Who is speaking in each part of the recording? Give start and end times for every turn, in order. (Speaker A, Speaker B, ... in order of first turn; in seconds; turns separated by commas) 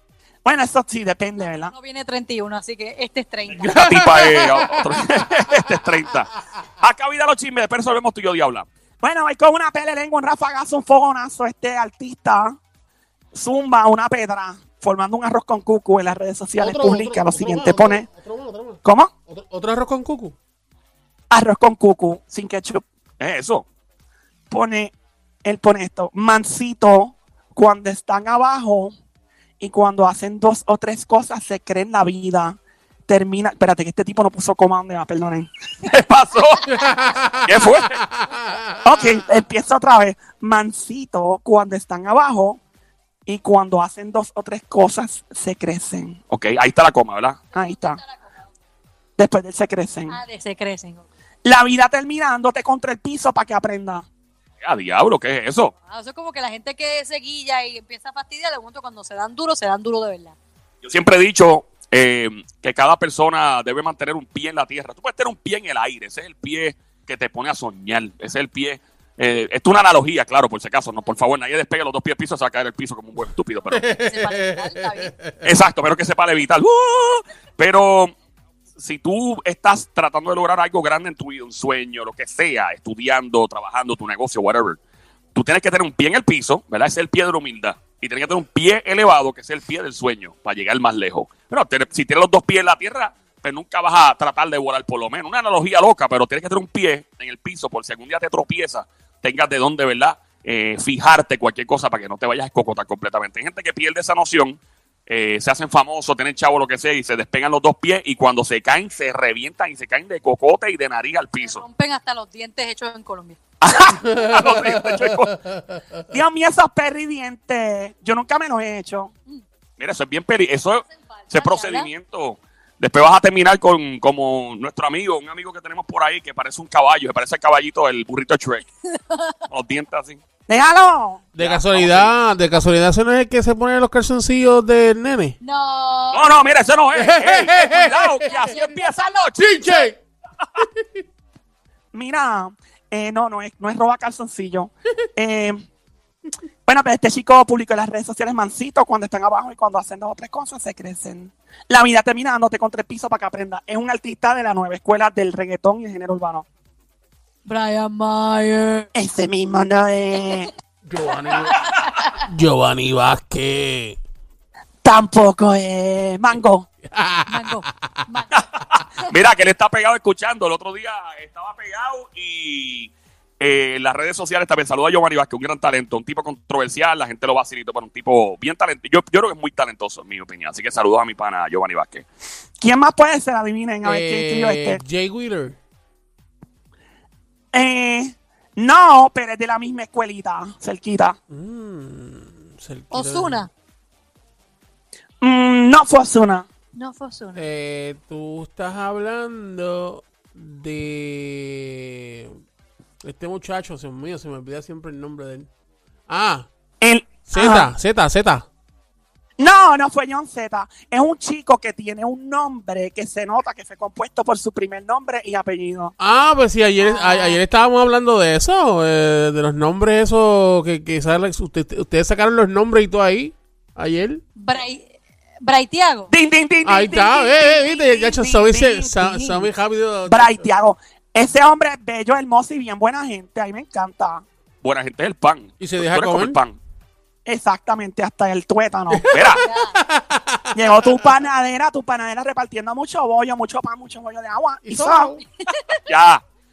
Speaker A: 0.4-1.7, Speaker B: 1.7-3.9, Speaker C: 3.6-6.3, Speaker D: 3.7-5.6, Speaker C: 6.8-8.7, Speaker A: 9.0-12.6, Speaker A: 13.3-18.1, Speaker D: 16.6-20.3, Speaker A: 18.8-19.1, Speaker A: 21.3-22.8, Speaker C: 23.2-23.6, Speaker A: 24.5-24.9, Speaker A: 25.4-28.9, Speaker A: 29.6-35.5, Speaker C: 35.8-36.7, Speaker D: 36.7-38.9, Speaker C: 37.4-38.0, Speaker A: 38.8-42.6, Speaker A: 43.2-46.2, Speaker C: 46.3-47.4, Speaker B: 47.5-48.3, Speaker A: 47.5-48.0, Speaker A: 49.2-50.2, Speaker B: 50.1-51.1, Speaker A: 51.4-54.0, Speaker C: 54.6-55.7, Speaker B: 55.9-60.3, Speaker C: 60.8-73.8, Speaker D: 73.7-75.5, Speaker B: 73.7-75.1, Speaker C: 75.4-78.1, Speaker C: 78.8-84.8, Speaker C: 85.3-111.6, Speaker B: 111.4-113.4, Speaker C: 113.6-115.4, Speaker D: 114.0-115.8, Speaker A: 116.1-119.1, Speaker C: 119.8-128.7, Speaker B: 120.8-121.9, Speaker B: 128.9-129.4, Speaker C: 129.5-130.2, Speaker A: 130.5-131.2, Speaker D: 131.3-135.3, Speaker C: 131.4-132.1, Speaker B: 135.4-136.3, Speaker C: 136.1-139.8, Speaker D: 136.9-138.6, Speaker B: 138.3-138.9, Speaker D: 139.4-140.0, Speaker D: 140.6-140.8, Speaker A: 141.9-145.6, Speaker A: 146.7-156.4, Speaker B: 157.4-158.9, Speaker A: 158.9-160.5, Speaker D: 160.8-164.0, Speaker B: 161.5-162.2, Speaker A: 164.8-166.7, Speaker D: 166.8-167.9, Speaker B: 167.3-168.4, Speaker C: 169.1-182.1, Speaker A: 182.6-184.8, Speaker D: 183.8-185.6, Speaker A: 187.5-191.2, Speaker D: 191.3-193.5, Speaker B: 192.9-193.5, Speaker A: 195.2-196.5, Speaker B: 196.7-197.4, Speaker D: 197.3-202.4, Speaker D: 203.0-205.5, Speaker D: 206.1-206.5, Speaker A: 206.8-207.7, Speaker D: 207.3-208.4, Speaker A: 209.4-215.9, Speaker D: 216.0-224.2, Speaker B: 216.8-217.4, Speaker B: 224.3-226.1, Speaker A: 226.1-229.5, Speaker D: 226.6-230.4, Speaker A: 230.1-234.2, Speaker C: 234.6-236.6, Speaker D: 235.6-236.4, Speaker A: 237.2-239.1, Speaker D: 238.9-241.0, Speaker C: 239.1-239.4, Speaker B: 239.3-239.8, Speaker A: 240.5-245.2, Speaker D: 244.6-245.2, Speaker B: 245.5-245.8, Speaker C: 245.8-246.2